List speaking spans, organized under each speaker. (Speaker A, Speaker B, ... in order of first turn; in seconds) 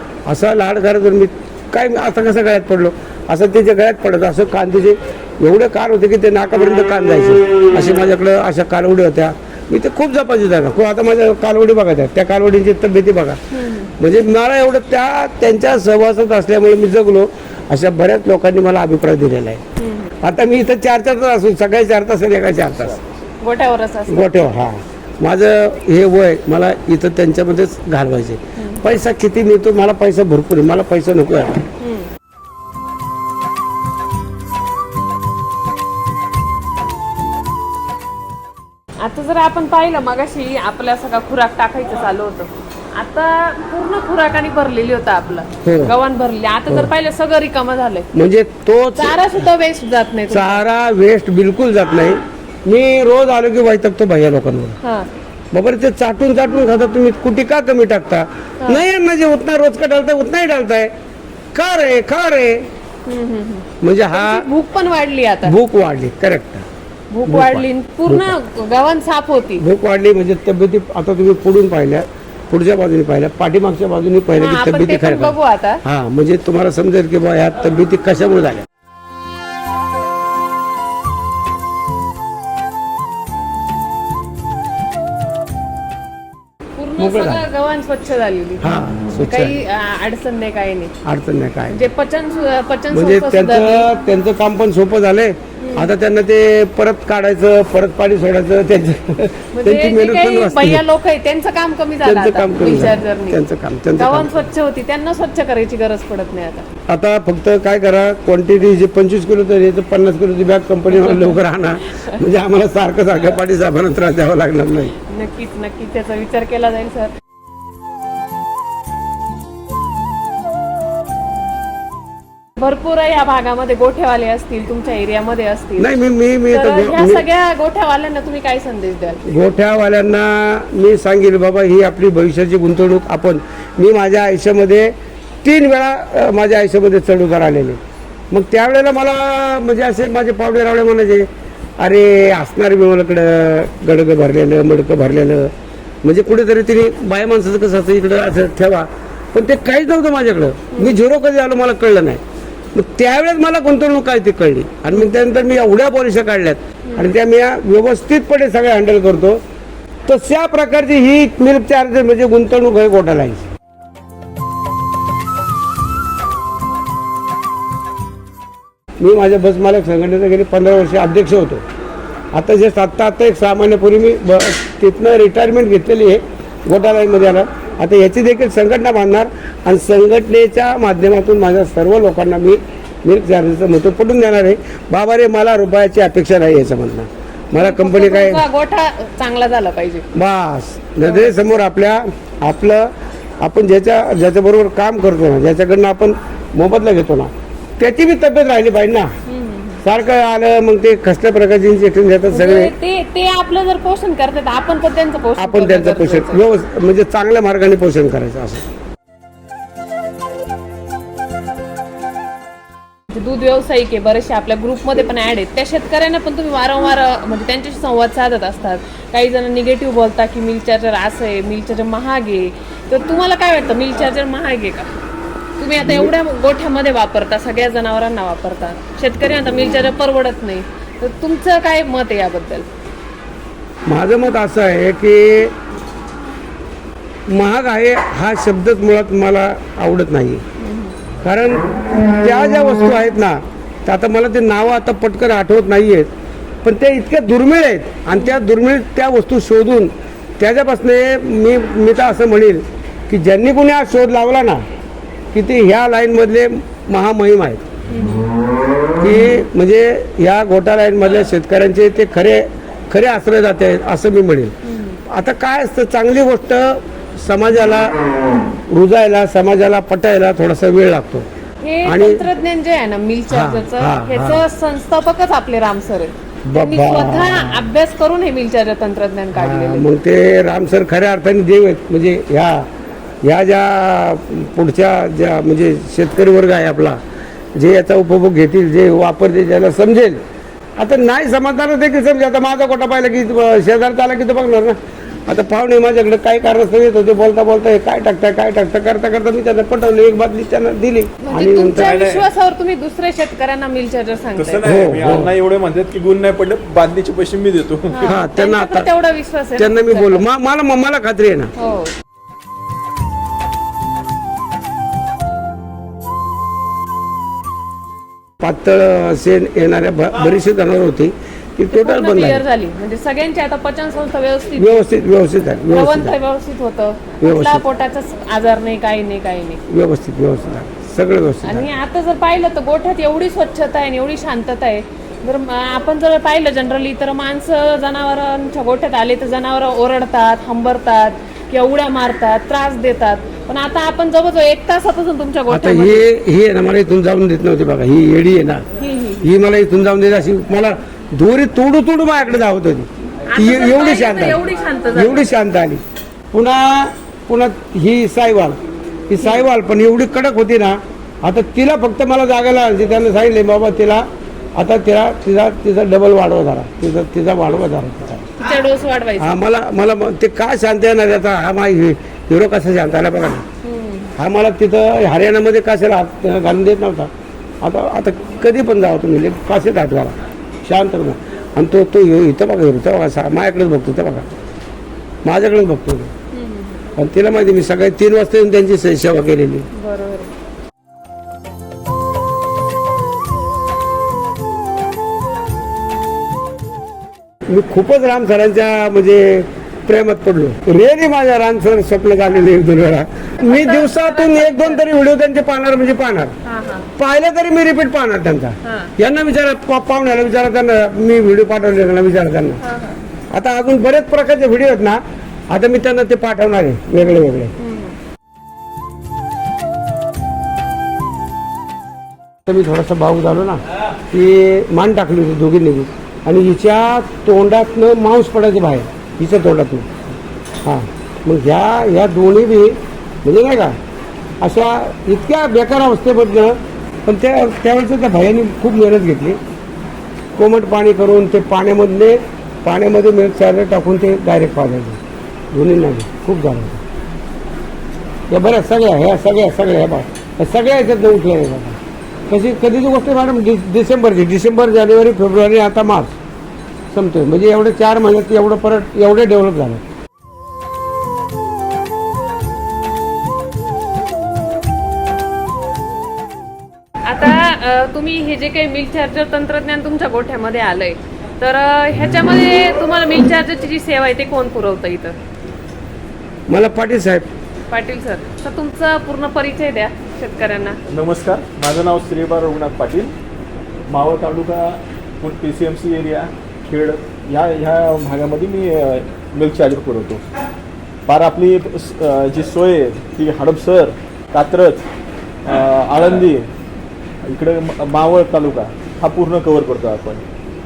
Speaker A: 0.2-13.4, 14.0-19.6, 20.2-23.0, 24.1-31.6, 45.6-46.0, 48.1-49.4, 50.3-54.8, 55.5-60.9, 61.5-62.6, 63.8-64.5, 65.5-66.6, 67.3-68.3, 69.6-78.6, 87.0-87.4, 88.6-89.6, 91.0-91.9, 92.9-100.8, 102.0-104.5, 106.9-114.9, 125.8-127.2, 129.2-137.8, 138.3-141.3, 141.8-145.5, 146.0-152.2, 152.7-159.4, 160.1-163.5, 169.0-171.6, 172.3-188.4, 190.1-192.9, 193.4-199.1, 199.8-202.7, 205.4-208.6, 225.8-226.1, 233.9-235.5, 237.3-240.4, 241.2-246.1, 246.6-254.6, 255.3-257.6, 259.0-264.5, 265.1-268.0, 268.7-271.2, 271.9-272.3, 273.3-274.4, 276.5-277.6, 279.4-282.7, 283.2-287.0, 287.6-290.2, 290.8-301.9, 304.6-305.3, 308.0-308.9, 309.6-311.5, 318.4-322.4, 324.6-326.1, 327.2-327.6, 329.7-331.7, 345.5-348.6, 349.2-354.4, 354.9-364.0, 364.6-368.3, 369.2-373.4, 374.2-377.1, 377.6-384.3, 385.2-386.1, 387.0-389.7, 397.5-406.3, 407.0-412.6, 413.3-417.5, 422.5-429.9, 430.6-433.8, 434.4-439.4, 440.4-445.0, 445.5-446.8, 448.3-451.8, 452.3-456.1, 456.9-459.8, 476.5-477.3
Speaker B: 13.5-13.9, 19.8-20.1, 23.4-24.3, 28.6-28.8, 31.8-32.1, 39.0-48.1, 49.0-50.6, 54.8-55.1, 63.0-65.5, 67.1-69.6, 74.3-75.8, 86.8-88.7, 89.3-90.9, 91.7-93.9, 95.6-95.9, 99.5-103.4, 104.0-106.7, 111.0-111.4, 115.0-117.1, 122.6-126.0, 126.5-129.2, 150.7-151.0, 187.5-190.1, 191.0-191.3, 199.3-199.8, 202.3-206.4, 213.1-224.9, 225.6-232.7, 240.6-241.0, 248.1-248.4, 257.9-258.3, 264.6-265.0, 271.6-279.9, 301.2-304.8, 307.9-310.2, 311.6-311.9, 321.7-324.9, 325.7-329.6, 331.4-346.0, 348.8-349.2, 353.3-355.3, 359.2-359.5, 368.4-369.4, 373.6-374.1, 386.3-386.9, 389.7-390.3, 403.4-404.8, 406.5-406.9, 408.6-408.9, 412.6-413.0, 417.6-418.0, 467.0-475.2, 477.7-480.8
Speaker C: 22.7-23.2, 301.7-302.3, 304.4-308.2, 480.9-483.1, 483.9-490.2, 491.1-494.9, 495.4-496.5, 497.2-500.2